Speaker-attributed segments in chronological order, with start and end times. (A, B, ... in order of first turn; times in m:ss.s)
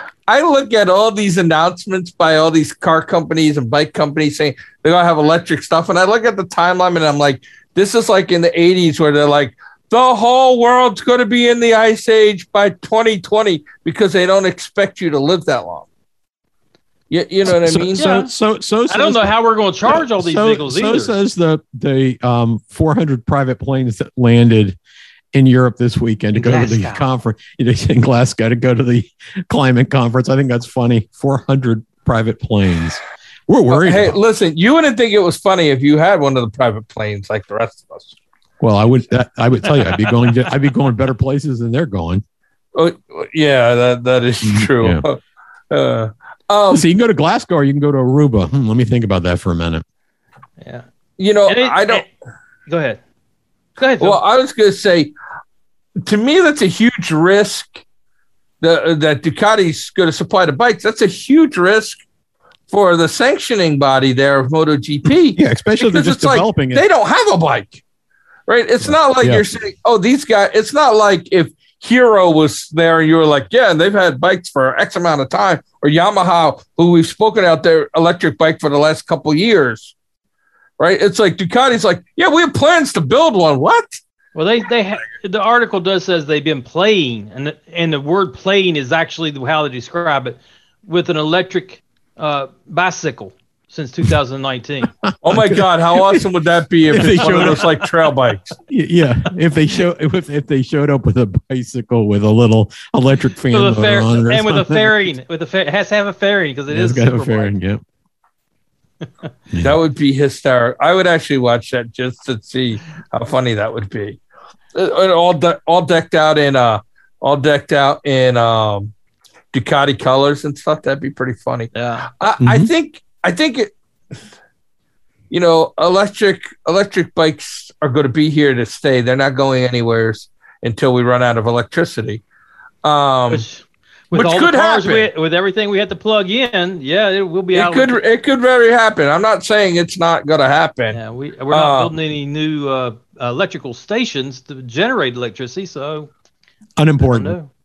0:00.3-0:15.9 A
0:17.1-0:18.2 A
0:17.4-0:19.3 B
0:18.0-0:18.3 C
0:18.9-0:21.2 C
0:19.8-0:24.8 B
0:25.3-0:34.2 B
0:26.3-0:27.1 C
0:33.7-0:38.2 A
0:38.6-0:42.2 B
0:42.8-0:45.2 A
0:44.4-0:45.0 B
0:45.7-0:46.9 A
0:46.7-0:49.8 B
0:51.2-0:52.0 A
0:51.5-0:52.0 C
0:52.7-0:53.0 C
0:53.8-0:54.2 C
0:54.0-0:55.1 A
0:56.0-0:57.8 A
0:58.6-1:02.0 A
1:02.7-1:07.8 A
1:05.1-1:06.8 B
1:08.5-1:20.0 A
1:08.8-1:09.4 B
1:20.8-1:24.0 A
1:24.4-1:34.9 C
1:35.0-1:36.3 B
1:35.2-1:38.6 A
1:36.9-1:37.8 B
1:37.0-1:37.6 C
1:38.7-1:45.1 B
1:43.5-1:47.5 C
1:46.7-1:47.8 B
1:49.5-1:49.8 B
1:49.6-1:54.2 A
1:54.7-1:58.9 A
1:59.5-2:03.7 A
2:01.7-2:02.1 C
2:02.4-2:02.7 B
2:05.3-2:12.2 A
2:12.8-2:13.5 A
2:13.3-2:18.0 C
2:14.1-2:15.1 A
2:17.5-2:21.0 A
2:20.9-2:26.1 C
2:21.5-2:21.9 A
2:26.8-2:27.4 B
2:27.0-2:27.5 C